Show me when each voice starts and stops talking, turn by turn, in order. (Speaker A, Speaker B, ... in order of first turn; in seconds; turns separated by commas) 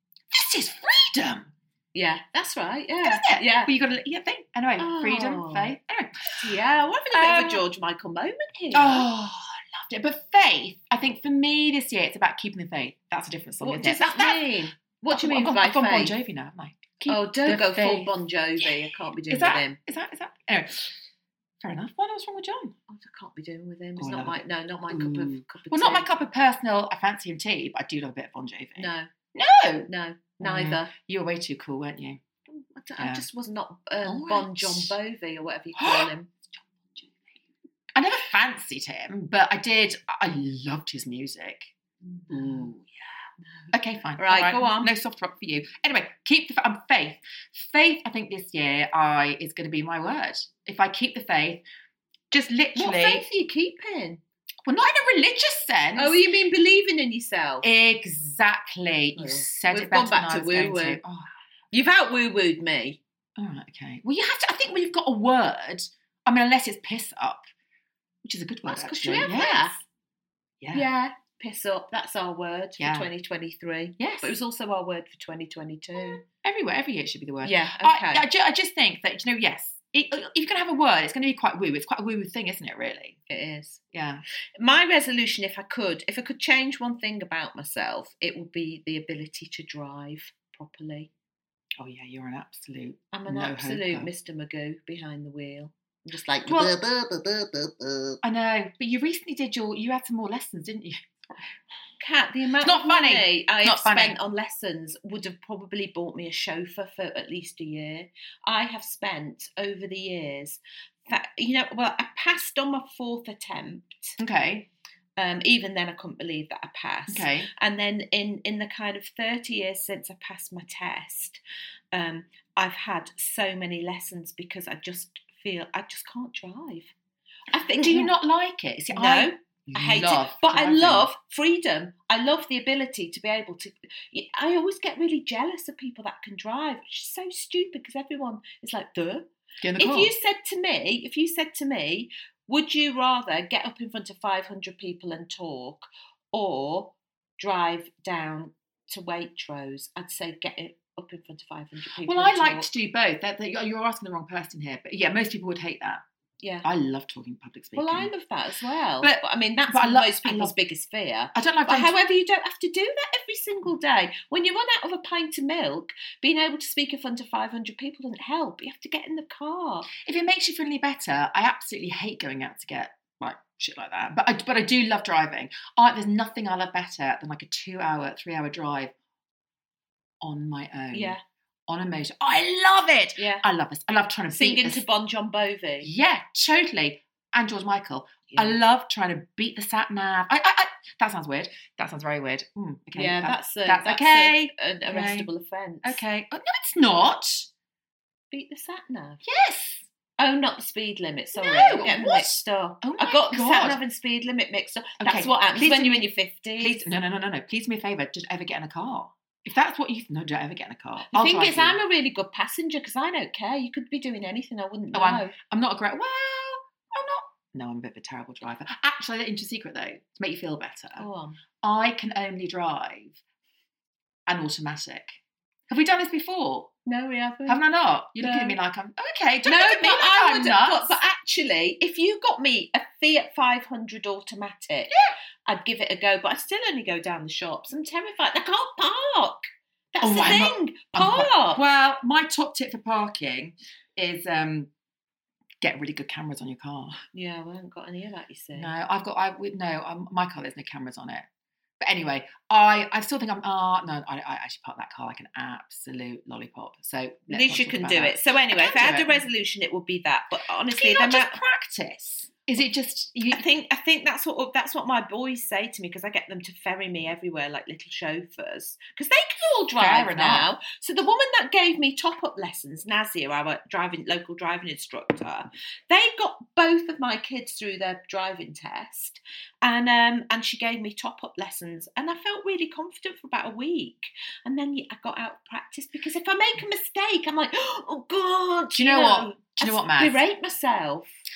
Speaker A: 0.3-1.5, Speaker B: 1.9-3.7, Speaker A: 3.0-6.6, Speaker B: 4.8-5.7, Speaker B: 6.3-9.1, Speaker A: 7.1-7.6, Speaker A: 8.7-14.5, Speaker B: 13.6-16.1, Speaker A: 15.1-18.7, Speaker B: 17.1-19.8, Speaker A: 19.3-21.0, Speaker A: 21.6-22.8, Speaker B: 22.9-26.1, Speaker A: 24.0-24.4, Speaker A: 24.9-32.2, Speaker B: 28.8-29.1, Speaker B: 29.9-30.9, Speaker B: 32.5-36.3, Speaker A: 33.0-33.2, Speaker A: 34.0-35.0, Speaker A: 35.8-37.3, Speaker A: 37.9-41.7, Speaker B: 42.1-42.7, Speaker A: 42.3-42.9, Speaker A: 43.7-51.6, Speaker B: 44.2-44.9, Speaker A: 52.3-53.2, Speaker B: 52.8-54.2, Speaker A: 54.7-56.2, Speaker B: 56.0-57.7, Speaker A: 57.6-61.3, Speaker B: 59.2-61.0, Speaker B: 61.7-63.0, Speaker A: 63.4-67.5, Speaker A: 68.2-69.8, Speaker B: 68.7-69.8, Speaker A: 70.6-70.9, Speaker B: 70.7-76.2, Speaker A: 72.8-73.1, Speaker A: 74.0-74.3, Speaker A: 76.0-83.2, Speaker B: 77.4-78.3, Speaker B: 83.3-83.8, Speaker A: 83.9-84.2, Speaker B: 84.6-91.1, Speaker A: 91.8-94.1, Speaker B: 93.1-98.2, Speaker A: 96.5-96.8, Speaker A: 98.2-101.5, Speaker B: 102.0-114.2, Speaker A: 102.6-104.2, Speaker A: 114.2-114.7, Speaker B: 115.2-121.4, Speaker A: 117.1-117.5, Speaker B: 121.9-126.9, Speaker B: 127.5-128.1, Speaker A: 127.8-131.1, Speaker B: 128.9-152.7, Speaker A: 139.6-140.1, Speaker A: 152.0-156.0, Speaker B: 156.4-156.7, Speaker A: 156.6-158.1, Speaker B: 157.8-169.9, Speaker A: 159.0-160.6, Speaker A: 161.3-162.0, Speaker A: 170.0-178.9, Speaker A: 180.2-181.2, Speaker B: 180.9-181.2, Speaker A: 181.7-184.8, Speaker B: 183.2-183.4, Speaker B: 184.3-185.9, Speaker A: 185.8-195.3, Speaker B: 188.3-188.6, Speaker B: 192.9-196.0, Speaker A: 195.8-197.5, Speaker B: 198.3-199.2, Speaker A: 199.2-199.9, Speaker B: 200.2-206.8, Speaker A: 201.4-203.8, Speaker A: 205.0-206.1, Speaker A: 206.6-211.8, Speaker B: 211.1-215.3, Speaker A: 214.9-221.1, Speaker B: 221.0-221.4, Speaker A: 221.6-223.2, Speaker A: 224.3-225.2, Speaker A: 225.7-226.7, Speaker B: 226.9-227.6, Speaker A: 227.5-231.0, Speaker B: 228.2-228.6, Speaker B: 229.4-234.9, Speaker B: 235.4-241.6, Speaker A: 240.0-244.7, Speaker A: 245.6-247.0, Speaker B: 247.1-248.7, Speaker A: 248.6-251.3, Speaker A: 251.8-259.2, Speaker B: 257.3-261.4, Speaker A: 260.7-263.4, Speaker B: 263.3-291.2, Speaker A: 269.8-270.5, Speaker A: 288.8-290.2